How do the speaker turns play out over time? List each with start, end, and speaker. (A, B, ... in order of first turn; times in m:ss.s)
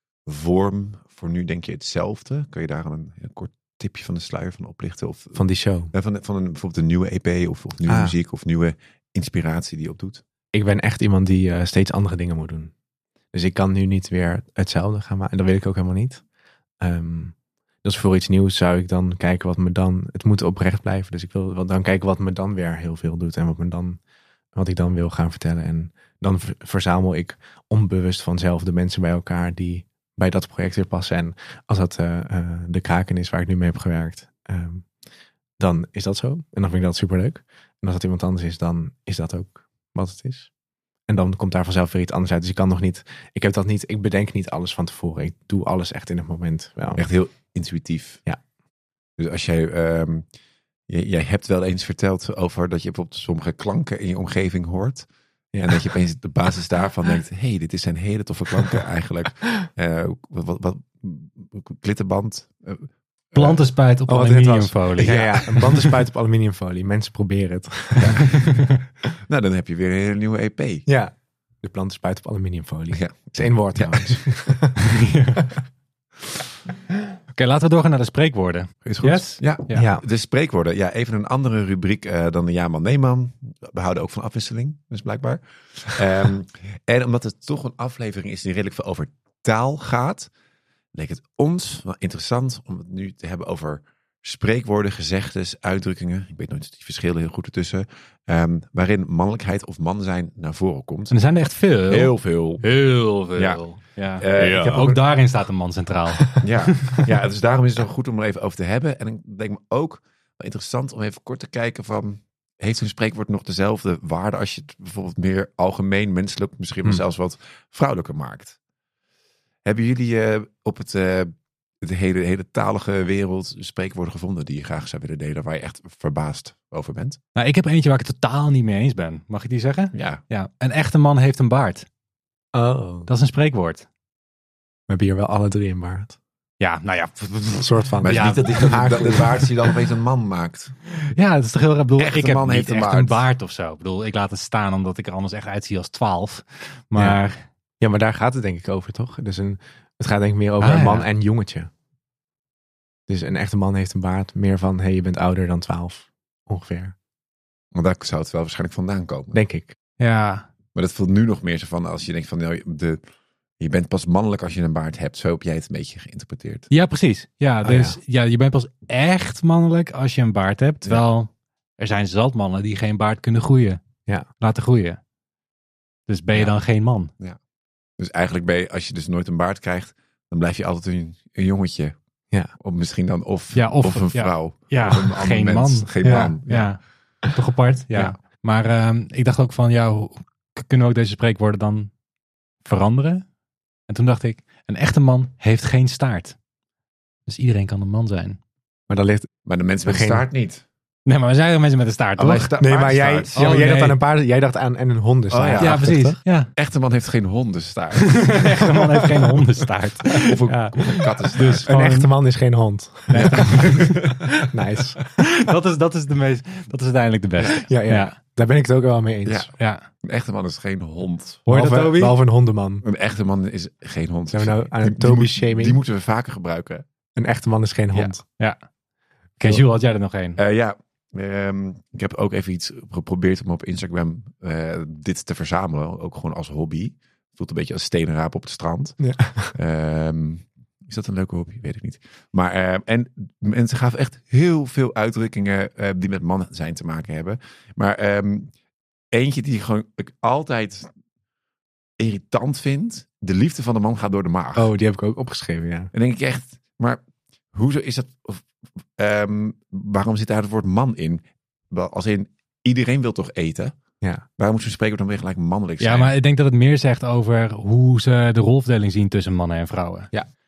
0:00.2-0:10.2 A
0:05.3-0:05.9 B
0:07.8-0:08.2 B
0:10.5-0:12.7 B
0:13.3-0:16.2 B
0:16.8-0:24.0 B
0:24.5-0:34.9 B
0:35.6-0:40.5 B
0:41.1-0:47.1 B
0:47.0-0:48.2 A
0:49.2-0:50.2 A
0:50.9-0:55.1 A
0:55.5-0:55.9 B
0:55.6-1:03.6 A
1:03.3-1:05.9 C
1:04.1-1:08.6 B
1:05.0-1:05.3 A
1:08.0-1:08.4 A
1:08.2-1:08.7 C
1:09.3-1:10.9 A
1:10.8-1:14.8 B
1:12.9-1:14.7 A
1:14.9-1:15.4 C
1:17.3-1:19.9 C
1:18.8-1:30.3 A
1:19.7-1:20.0 B
1:30.9-1:41.2 A
1:41.1-1:47.0 C
1:41.7-1:45.0 A
1:46.4-1:58.6 A
1:59.6-2:07.2 A
2:07.3-2:11.9 C
2:09.9-2:10.2 A
2:12.5-2:13.1 B
2:13.1-2:13.8 C
2:14.9-2:16.2 B
2:16.6-2:18.8 C
2:17.6-2:19.5 B
2:18.0-2:20.8 A
2:21.1-2:27.4 C
2:22.0-2:23.2 A
2:27.8-2:31.7 B
2:30.6-2:31.1 C
2:33.1-2:36.9 B
2:37.7-2:39.4 A
2:39.3-2:39.8 B
2:40.0-2:40.5 C
2:40.7-2:43.0 A
2:43.6-2:46.7 A
2:46.7-2:53.8 C
2:47.6-2:48.0 B
2:54.4-2:55.0 C
2:56.1-2:57.1 C
2:57.1-2:57.4 A
2:58.0-3:02.0 A
3:02.6-3:06.8 A
3:03.5-3:11.9 C
3:06.0-3:06.4 B
3:12.6-3:13.3 C
3:13.9-3:16.4 C
3:17.2-3:18.4 C
3:18.9-3:19.3 B
3:19.4-3:20.6 A
3:19.8-3:20.2 B
3:21.0-3:22.5 C
3:22.2-3:23.4 A
3:22.6-3:26.2 B
3:23.3-3:24.0 C
3:25.3-3:25.9 A
3:25.6-3:26.5 C
3:26.5-3:28.6 A
3:28.2-3:32.1 C
3:30.1-3:31.7 A
3:31.6-3:35.0 B
3:33.1-3:34.1 C
3:33.1-3:34.2 A
3:35.2-3:38.1 C
3:37.5-3:39.5 B
3:39.2-3:41.4 A
3:39.6-3:39.9 C
3:41.5-3:42.2 C
3:41.5-3:42.8 B
3:42.8-3:46.8 A
3:44.3-3:45.8 B
3:47.1-3:48.2 B
3:49.4-3:50.4 C
3:50.4-4:08.5 A
3:59.0-3:59.5 B
4:09.1-4:10.9 A
4:12.0-4:14.7 A
4:14.5-4:15.9 B
4:15.9-4:17.0 A
4:17.5-4:18.4 A
4:19.0-4:23.8 A
4:24.4-4:26.1 A
4:25.8-4:30.1 C